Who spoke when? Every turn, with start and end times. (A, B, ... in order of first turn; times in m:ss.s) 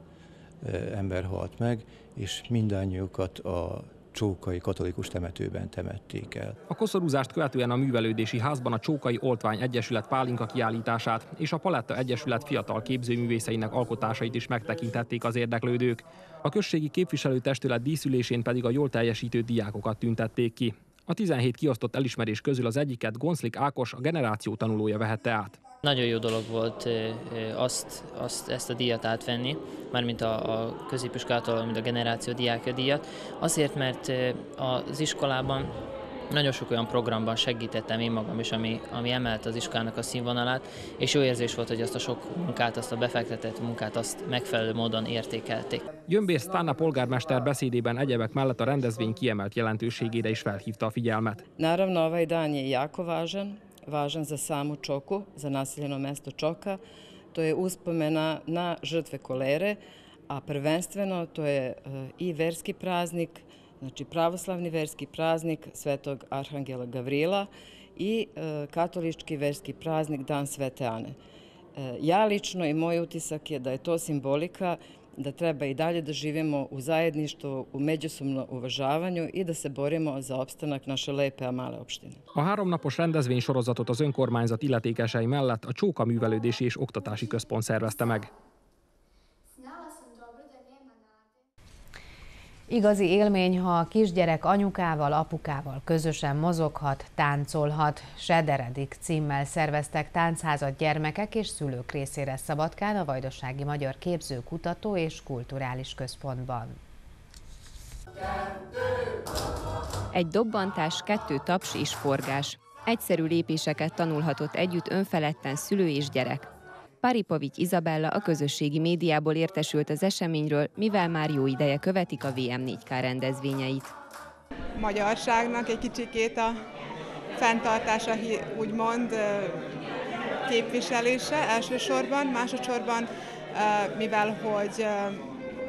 0:00.6-0:06.6 A
0:06.7-0:25.6 B
0:25.8-0:35.8 C
0:36.3-0:45.8 C
0:46.1-0:51.4 B
0:51.6-0:56.8 D
0:57.3-1:11.2 D
1:11.8-1:22.2 D
1:22.3-1:28.3 B
1:32.7-1:46.8 E
1:50.1-1:56.5 F
1:57.0-2:03.9 F
2:04.8-2:06.6 G
2:07.4-2:09.6 G
2:10.5-2:15.3 G